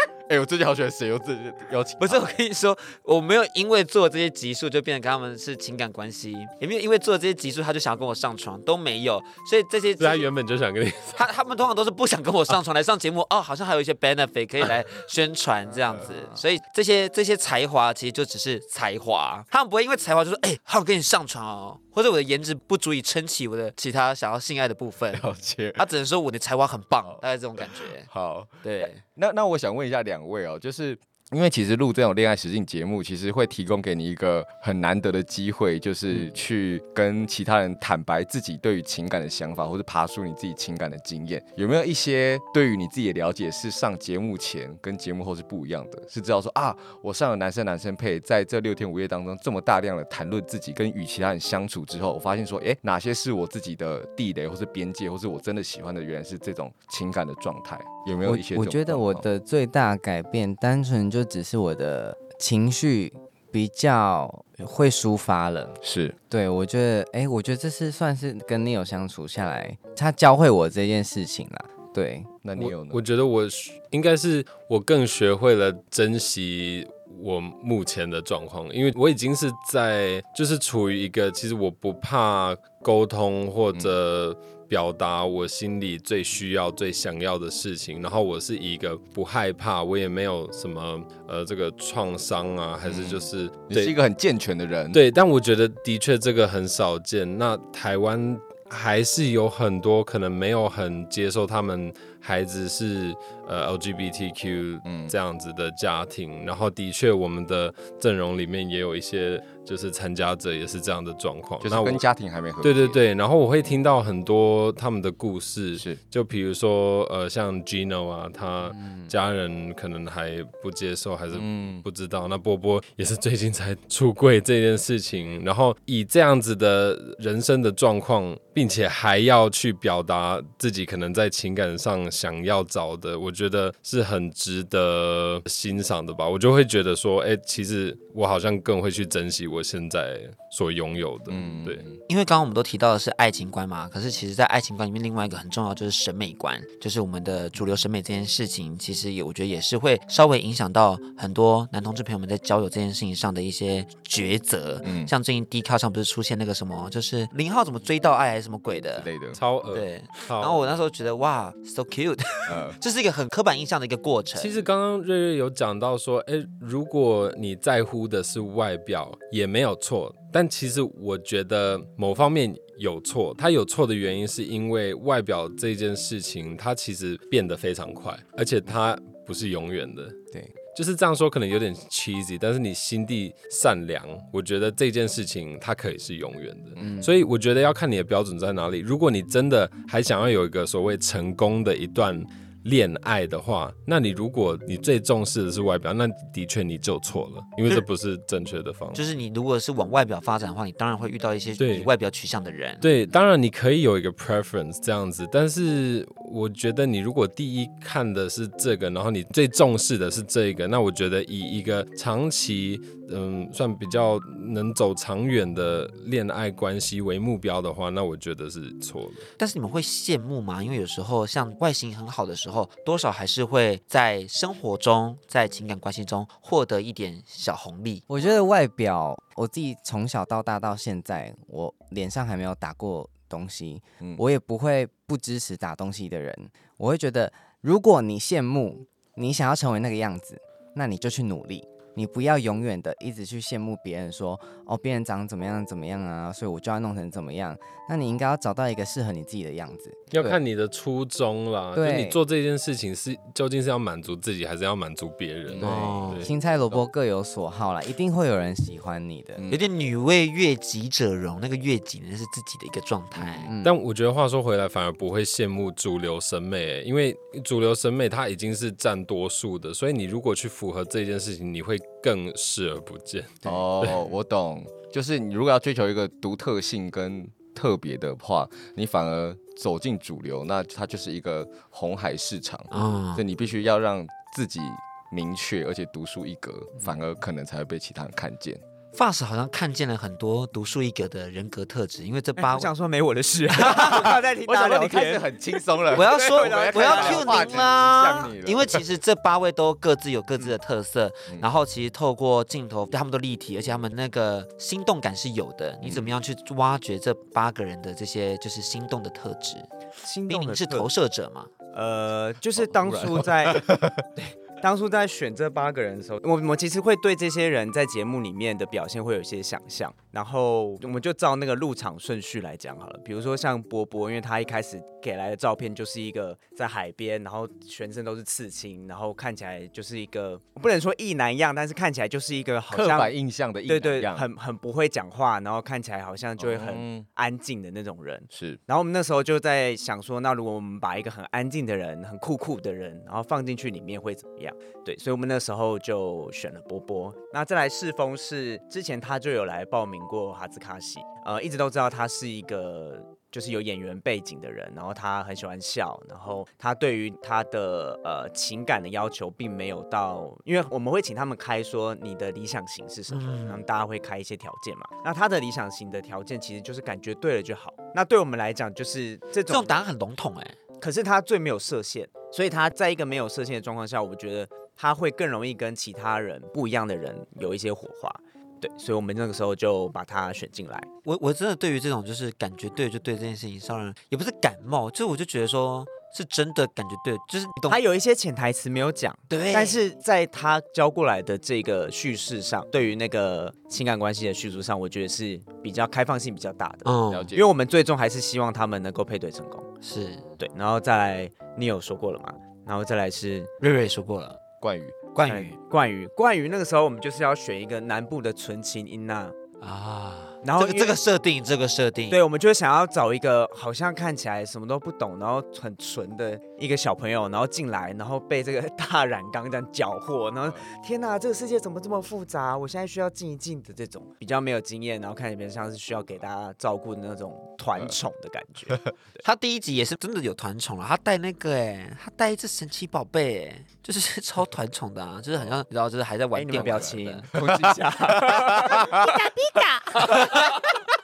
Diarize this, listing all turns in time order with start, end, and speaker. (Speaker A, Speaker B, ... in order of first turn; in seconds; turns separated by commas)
Speaker A: 0.3-2.4, Speaker B: 2.0-10.3, Speaker C: 10.0-11.3, Speaker B: 11.1-25.2, Speaker D: 15.9-16.4, Speaker A: 25.1-25.8, Speaker B: 25.8-28.1, Speaker A: 27.6-59.3, Speaker B: 28.6-29.0, Speaker D: 58.2-65.8, Speaker A: 65.8-66.2, Speaker D: 66.3-72.3, Speaker A: 72.4-73.0, Speaker C: 72.6-94.0, Speaker A: 92.8-95.0, Speaker C: 94.9-112.0, Speaker A: 104.8-105.2, Speaker A: 111.6-113.0, Speaker C: 112.6-141.9, Speaker D: 118.7-119.1, Speaker A: 121.3-121.8, Speaker A: 141.3-142.0, Speaker B: 142.1-159.1, Speaker A: 154.8-155.1, Speaker A: 158.9-159.4, Speaker C: 159.3-160.8, Speaker B: 159.7-164.7, Speaker A: 162.5-162.8, Speaker C: 164.3-180.2, Speaker C: 180.7-199.0, Speaker D: 186.8-187.1, Speaker B: 198.9-202.8, Speaker C: 201.6-201.9, Speaker C: 202.8-219.3, Speaker B: 219.4-228.0, Speaker D: 228.1-250.4, Speaker C: 250.1-256.3, Speaker D: 251.8-252.2, Speaker A: 255.5-256.8, Speaker B: 255.6-256.3, Speaker D: 256.2-259.4, Speaker A: 259.4-259.6, Speaker B: 259.5-263.5, Speaker D: 263.5-263.7, Speaker C: 263.6-274.0, Speaker A: 273.4-288.6, Speaker B: 282.7-283.2, Speaker B: 288.9-292.7, Speaker E: 292.4-297.7, Speaker B: 293.6-294.1, Speaker A: 293.7-298.9, Speaker B: 295.9-309.7, Speaker A: 305.8-306.1, Speaker E: 310.0-310.9, Speaker B: 310.3-311.5, Speaker E: 311.7-313.7, Speaker A: 312.6-314.1, Speaker E: 314.2-333.1, Speaker A: 332.7-334.3, Speaker E: 333.7-369.8, Speaker A: 336.4-337.1, Speaker A: 338.3-338.6, Speaker B: 363.1-363.6, Speaker B: 369.5-370.6, Speaker E: 370.8-380.9, Speaker B: 381.1-387.8, Speaker E: 387.7-399.7, Speaker B: 389.3-389.8, Speaker B: 396.9-397.3, Speaker A: 397.1-397.4, Speaker B: 399.8-400.3, Speaker E: 400.4-403.5, Speaker B: 403.6-404.4, Speaker A: 404.6-405.1, Speaker B: 405.1-405.6, Speaker E: 405.2-409.4, Speaker B: 409.6-412.2, Speaker E: 410.4-411.0, Speaker E: 412.1-429.2, Speaker B: 429.2-437.3, Speaker E: 436.4-440.2, Speaker A: 436.6-439.3, Speaker B: 439.8-440.6